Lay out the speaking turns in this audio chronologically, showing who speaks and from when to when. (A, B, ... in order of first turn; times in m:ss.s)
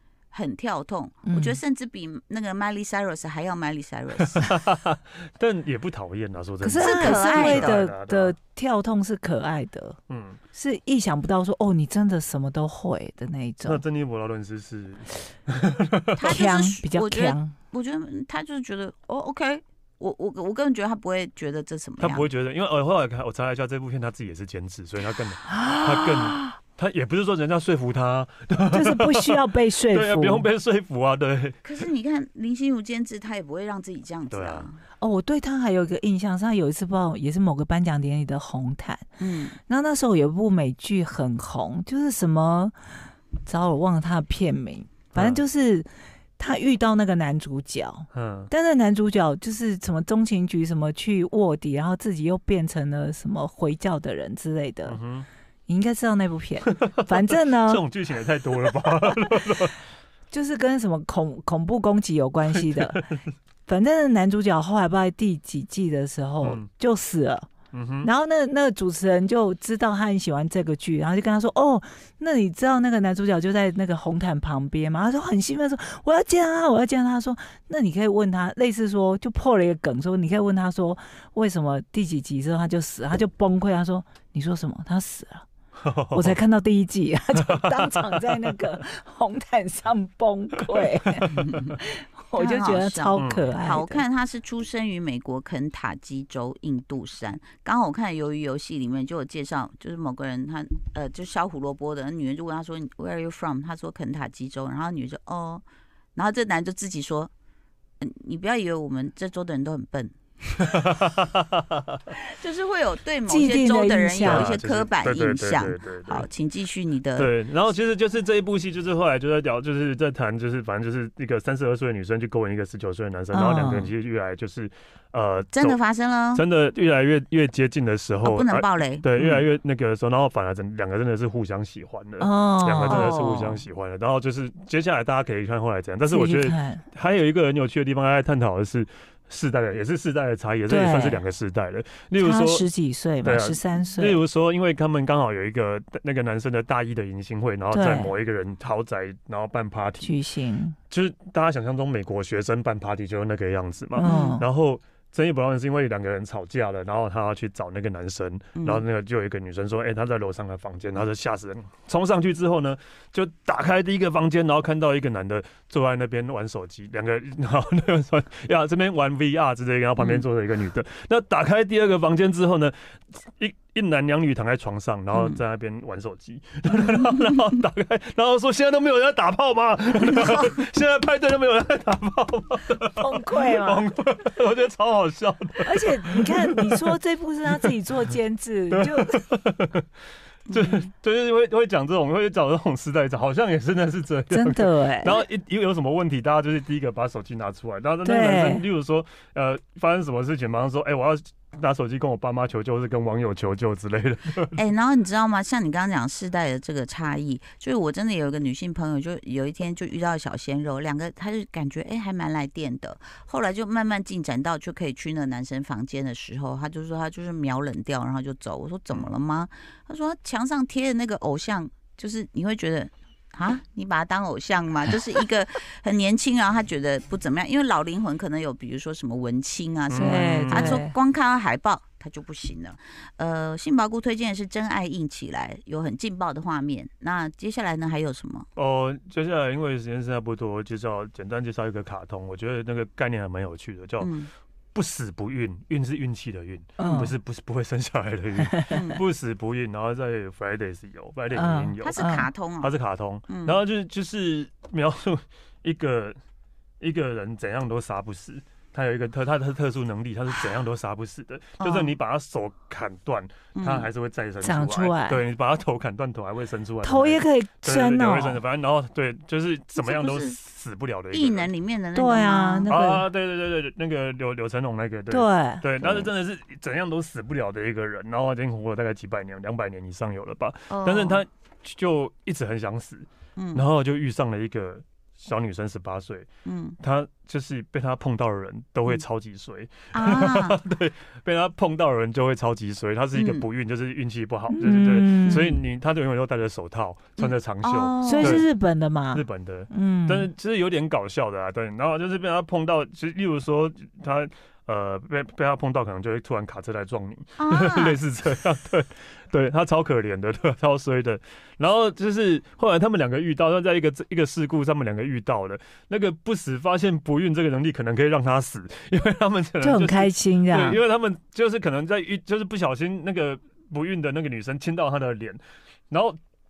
0:00.3-0:04.5 A
0:01.2-0:01.6 B
0:04.3-0:08.4 C
0:06.6-0:10.0 B
0:06.8-0:07.8 A
0:10.1-0:10.4 C
0:10.5-0:13.8 B
0:13.6-0:16.3 C
0:16.2-0:22.3 A
0:16.3-0:17.6 B
0:22.0-0:31.6 C
0:25.5-0:26.6 B
0:28.7-0:30.5 B
0:31.6-0:34.8 A
0:34.3-0:34.7 C
0:35.0-0:39.1 B
0:39.2-0:39.6 A
0:39.7-0:42.8 B
0:43.4-0:55.0 B
0:45.2-0:45.4 C
0:48.1-0:48.5 C
0:54.9-0:55.3 C
0:55.7-0:57.8 B
0:57.6-0:59.8 C
1:00.3-1:03.0 B
1:02.5-1:03.3 C
1:03.7-1:07.5 B
1:06.4-1:06.7 C
1:07.7-1:08.1 C
1:08.0-1:25.5 B
1:25.8-1:26.4 C
1:26.1-1:34.0 B
1:27.4-1:28.0 C
1:31.2-1:31.8 A
1:32.4-1:45.6 A
1:33.2-1:33.5 C
1:46.2-1:47.3 A
1:48.0-1:50.2 A
1:50.7-1:52.0 C
1:52.3-1:57.3 A
1:53.3-1:54.5 B
1:54.2-1:56.3 C
1:57.2-2:05.8 C
2:03.3-2:03.9 B
2:05.5-2:06.4 A
2:06.3-2:22.7 C
2:08.2-2:09.1 A
2:12.2-2:13.6 B
2:12.9-2:13.2 A
2:16.0-2:16.8 B
2:20.7-2:21.2 B
2:22.2-2:24.2 B
2:23.2-2:30.2 C
2:27.7-2:28.1 B
2:30.0-2:30.8 B
2:30.9-3:07.7 C
2:34.0-2:34.4 B
2:34.0-2:34.4 A
2:38.6-2:38.8 A
2:50.0-2:50.2 A
3:03.0-3:03.9 B
3:05.6-3:09.2 B
3:08.7-3:09.8 C
3:10.5-3:10.9 A
3:10.5-3:24.6 C
3:14.3-3:15.2 B
3:18.0-3:18.7 B
3:24.6-3:58.5 A
3:49.9-3:50.8 C
3:50.0-3:50.9 B
3:58.6-4:04.1 C
4:04.0-4:04.3 A
4:04.8-4:12.1 C
4:06.8-4:07.2 B
4:08.4-4:08.8 B
4:08.7-4:09.0 A
4:11.3-4:12.3 B
4:11.8-4:12.7 A
4:12.6-4:16.2 C
4:13.3-4:13.6 A
4:16.8-4:31.5 C
4:21.6-4:22.0 A
4:23.6-4:23.9 A
4:24.4-4:25.2 B
4:26.8-4:28.4 B
4:29.8-4:30.4 A
4:31.1-4:32.7 A
4:32.0-4:33.0 B
4:32.7-4:46.3 C
4:35.1-4:35.6 B
4:35.8-4:36.1 A
4:40.7-4:41.2 A
4:43.4-4:43.6 A
4:46.4-4:46.8 A
4:46.8-4:58.5 C
4:49.9-4:50.6 A
4:53.2-4:53.4 A
4:54.5-4:55.6 B
4:55.3-4:55.6 A
4:57.2-4:58.4 A
4:58.0-5:00.3 B
4:59.1-5:26.2 C
5:07.4-5:08.0 A
5:19.6-5:20.8 B